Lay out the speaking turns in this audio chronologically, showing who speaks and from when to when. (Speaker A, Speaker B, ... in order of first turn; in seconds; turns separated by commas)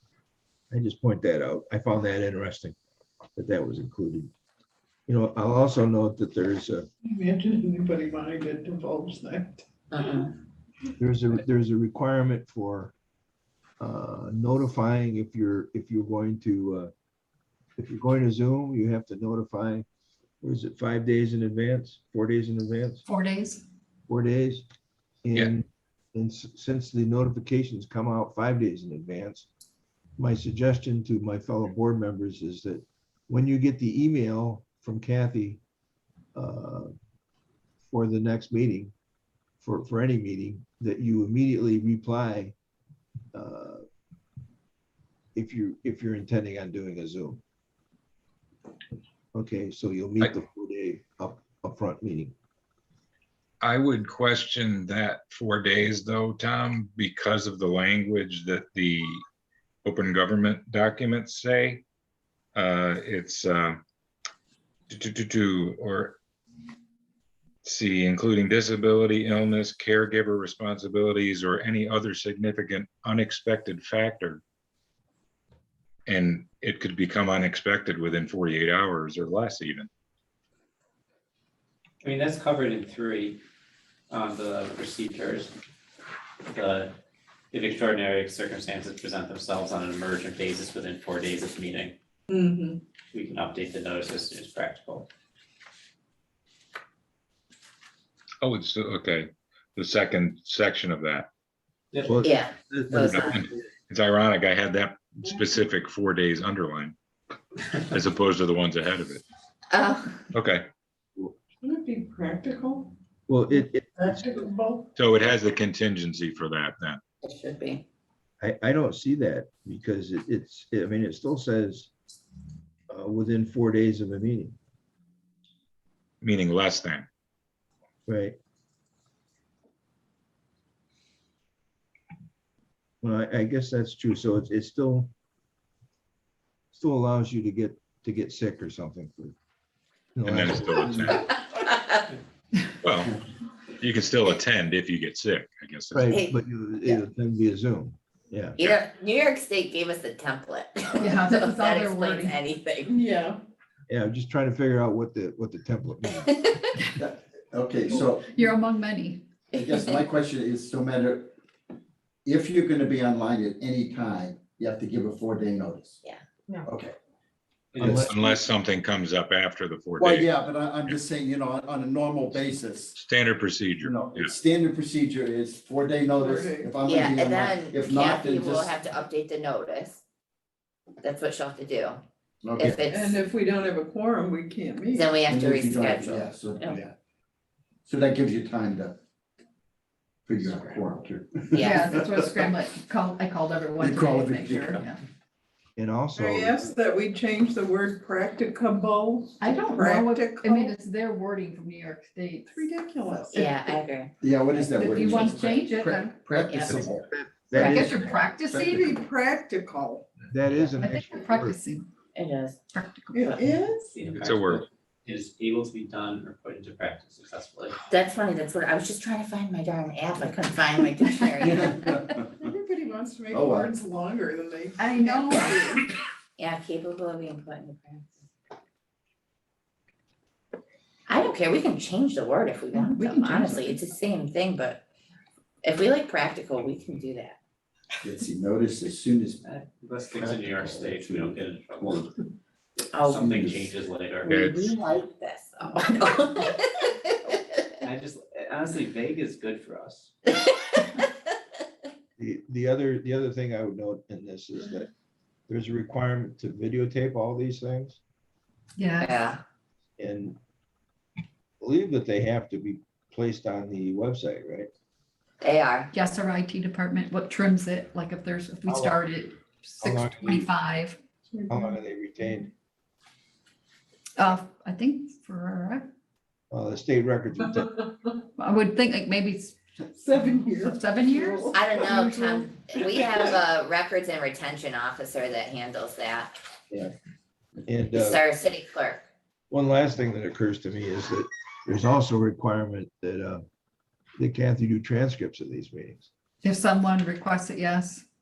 Speaker A: 0.7-2.8, Speaker A: 3.4-4.3, Speaker A: 5.1-6.9, Speaker B: 7.0-9.6, Speaker C: 9.9-10.3, Speaker A: 11.0-12.9, Speaker A: 13.8-16.9, Speaker A: 17.8-19.9, Speaker A: 20.4-23.0, Speaker D: 23.1-23.6, Speaker A: 24.1-24.6, Speaker A: 25.2-29.5, Speaker A: 30.2-35.6, Speaker A: 36.4-36.9, Speaker A: 37.8-38.9, Speaker A: 39.6-42.5, Speaker A: 43.3-43.9, Speaker A: 45.4-47.4, Speaker A: 49.3-52.4, Speaker E: 53.6-59.2, Speaker E: 59.8-61.9, Speaker E: 62.5-63.8, Speaker E: 64.9-66.2, Speaker E: 67.6-74.4, Speaker E: 76.1-79.9, Speaker F: 82.0-83.4, Speaker F: 84.1-85.5, Speaker F: 86.5-86.9, Speaker F: 87.5-92.0, Speaker B: 92.3-92.8, Speaker F: 93.1-95.1, Speaker E: 98.4-101.3, Speaker A: 102.0-103.7, Speaker C: 102.2-103.4, Speaker E: 103.1-107.0, Speaker E: 107.9-109.2, Speaker C: 109.7-110.2, Speaker E: 110.3-110.7, Speaker B: 111.6-112.9, Speaker A: 113.3-114.4, Speaker B: 114.0-114.9, Speaker E: 115.0-117.0, Speaker C: 117.2-117.8, Speaker A: 118.4-121.9, Speaker A: 122.9-124.6, Speaker E: 126.2-127.1, Speaker A: 128.1-128.4, Speaker A: 133.0-135.1, Speaker A: 136.7-139.3, Speaker A: 140.2-141.2, Speaker E: 140.3-141.2, Speaker C: 141.1-142.0, Speaker E: 142.8-143.1, Speaker E: 143.8-146.2, Speaker A: 145.9-148.6, Speaker C: 146.0-147.0, Speaker C: 148.6-153.0, Speaker D: 151.0-152.4, Speaker B: 152.9-153.4, Speaker A: 153.9-156.3, Speaker C: 156.3-156.6, Speaker G: 157.0-158.5, Speaker D: 157.9-159.3, Speaker G: 159.5-161.3, Speaker C: 159.7-160.0, Speaker G: 162.2-166.0, Speaker G: 166.6-166.9, Speaker F: 167.7-168.1, Speaker A: 167.8-168.2, Speaker E: 167.8-171.0, Speaker G: 170.0-173.0, Speaker E: 172.9-174.3, Speaker G: 173.8-178.8, Speaker B: 176.1-176.8, Speaker C: 176.8-180.0, Speaker C: 181.0-182.0, Speaker G: 182.4-182.8, Speaker C: 182.6-183.2, Speaker B: 182.9-185.2, Speaker C: 184.9-186.8, Speaker G: 185.3-186.9, Speaker G: 187.9-189.0, Speaker G: 190.3-192.5, Speaker B: 190.4-190.8, Speaker C: 191.5-191.8, Speaker D: 191.6-195.0, Speaker G: 193.8-194.8, Speaker B: 194.5-194.8, Speaker A: 195.8-196.6, Speaker B: 196.2-200.8, Speaker D: 199.4-203.3, Speaker B: 202.5-203.8, Speaker C: 203.3-204.1, Speaker G: 204.2-207.0, Speaker D: 204.6-206.3, Speaker B: 205.3-205.9, Speaker C: 206.5-206.8, Speaker A: 206.7-208.0, Speaker D: 207.5-208.8, Speaker C: 207.6-208.0, Speaker G: 208.5-208.9, Speaker B: 208.6-210.1, Speaker A: 210.3-211.6, Speaker D: 210.8-211.9, Speaker C: 212.2-212.6, Speaker D: 212.7-213.5, Speaker B: 213.1-213.9, Speaker F: 213.9-217.8, Speaker E: 214.1-214.7, Speaker C: 217.9-221.9, Speaker D: 221.2-222.1, Speaker G: 221.4-222.3, Speaker B: 222.4-225.8, Speaker G: 223.3-223.7, Speaker D: 224.8-225.7, Speaker C: 226.4-228.2, Speaker C: 231.1-234.8, Speaker B: 232.7-233.8, Speaker C: 235.6-237.4, Speaker G: 238.0-239.4, Speaker F: 239.4-242.1, Speaker G: 240.2-242.1, Speaker F: 242.8-244.3, Speaker C: 242.9-243.4, Speaker G: 243.1-243.7, Speaker E: 244.3-244.7, Speaker C: 244.3-247.5, Speaker F: 247.8-250.1, Speaker C: 250.8-251.0, Speaker A: 252.2-254.9, Speaker A: 255.5-258.0, Speaker D: 258.8-259.3, Speaker C: 259.0-259.4, Speaker A: 260.0-260.4, Speaker A: 261.6-264.7, Speaker C: 265.4-265.9, Speaker D: 265.9-271.0, Speaker A: 268.7-269.0, Speaker A: 269.8-270.5, Speaker B: 271.3-272.4, Speaker A: 271.5-272.5, Speaker D: 274.2-275.9, Speaker A: 276.5-277.7, Speaker D: 278.4-279.6, Speaker B: 279.9-282.0, Speaker D: 280.6-282.6, Speaker C: 281.5-286.3, Speaker B: 282.8-283.4, Speaker A: 287.7-288.2, Speaker C: 287.9-289.0, Speaker A: 289.5-293.4, Speaker A: 294.2-296.1, Speaker D: 296.4-298.1